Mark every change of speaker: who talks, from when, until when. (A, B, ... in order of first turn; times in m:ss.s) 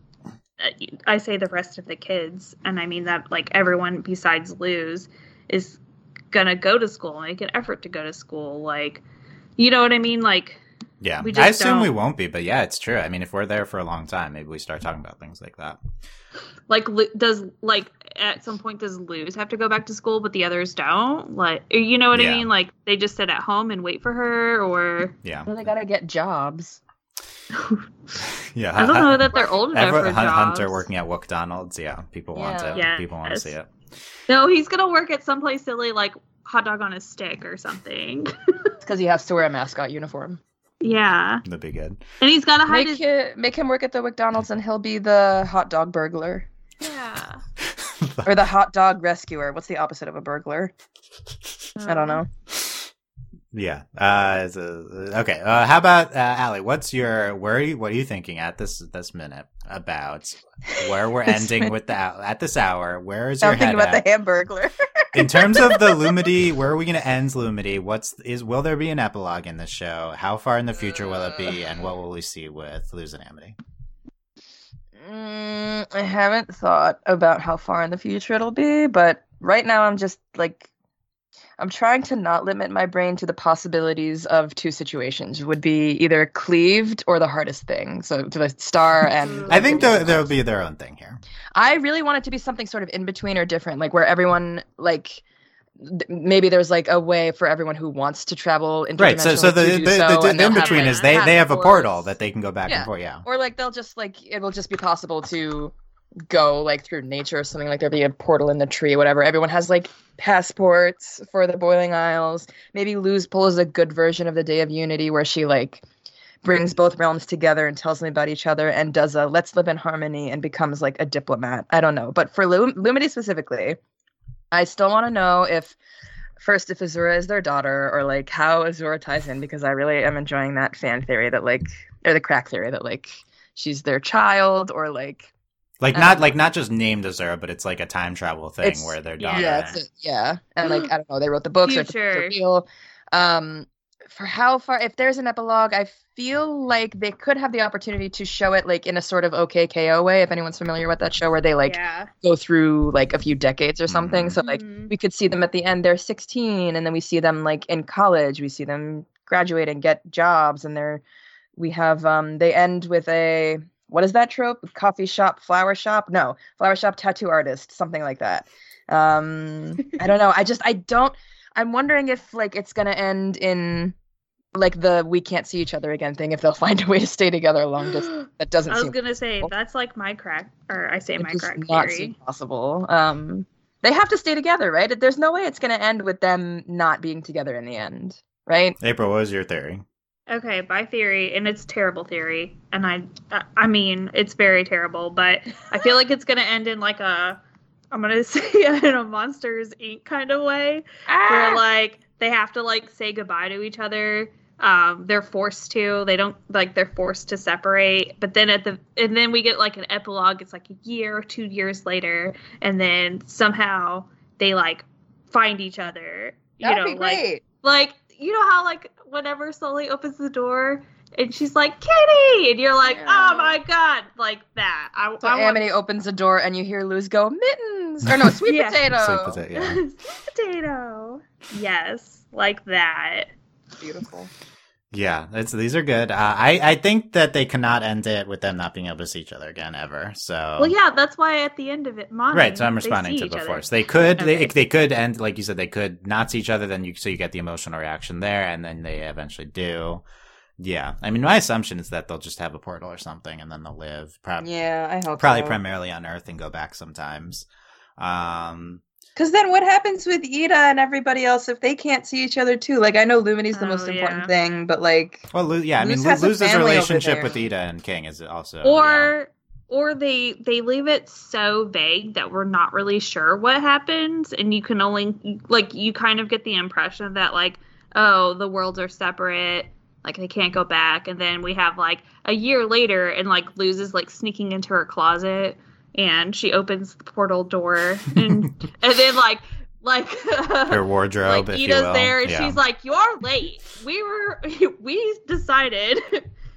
0:00.6-0:05.8 A
0:06.3-0:09.0 A
0:09.6-0:10.6 A
0:11.0-0:15.8 B
0:11.2-0:11.9 A
0:16.7-0:25.1 A
0:22.1-0:22.5 B
0:25.2-0:25.5 B
0:25.4-0:26.8 C
0:28.3-0:33.7 B
0:28.8-0:30.8 A
0:29.3-0:29.7 C
0:32.3-0:32.8 C
0:32.7-0:33.5 A
0:34.3-0:38.3 A
0:38.8-0:40.4 C
0:40.8-0:41.4 A
0:41.4-0:42.0 B
0:42.2-0:43.0 A
0:42.7-0:46.5 C
0:46.8-0:47.4 A
0:47.8-0:48.3 B
0:48.2-0:50.7 C
0:51.8-0:52.2 A
0:51.9-0:52.3 C
0:53.5-1:04.0 B
1:00.7-1:01.7 C
1:03.4-1:06.1 C
1:05.1-1:13.6 B
1:15.0-1:20.7 C
1:21.6-1:30.3 C
1:29.2-1:29.8 A
1:29.5-1:31.2 B
1:31.6-1:35.2 C
1:35.8-1:41.9 C
1:39.0-1:43.2 B
1:40.4-1:41.8 A
1:42.7-1:45.7 C
1:46.3-1:55.8 C
1:56.4-2:03.8 C
2:04.5-2:05.8 C
2:06.4-2:15.3 C
2:15.8-2:19.8 B
2:15.9-2:16.3 C
2:18.6-2:41.0 C
2:19.2-2:19.8 A
2:21.6-2:22.4 A
2:31.6-2:32.1 A
2:33.9-2:34.4 B
2:34.4-2:34.9 A
2:41.6-2:53.9 C
2:54.5-2:59.5 C
2:58.7-3:02.2 A
3:01.2-3:08.8 C
3:08.8-3:09.8 B
3:10.3-3:17.4 A
3:17.9-3:45.6 A
3:21.1-3:21.6 C
3:36.6-3:37.4 C
3:42.8-3:43.6 C
3:45.2-3:49.4 C
3:48.0-3:48.4 B
3:48.4-3:49.0 A
3:48.9-3:49.8 B
3:49.5-3:53.3 A
3:53.8-3:54.3 C
3:54.9-4:00.7 B
4:00.6-4:03.6 A
4:02.3-4:10.0 B
4:04.2-4:04.6 A
4:10.6-4:14.5 B
4:14.4-4:15.6 C
4:15.2-4:17.4 B
4:18.0-4:18.8 B
4:19.2-4:25.3 C
4:23.5-4:24.3 A
4:25.3-4:29.1 B
4:25.8-4:27.4 C
4:28.6-4:56.3 A
4:50.7-4:52.6 B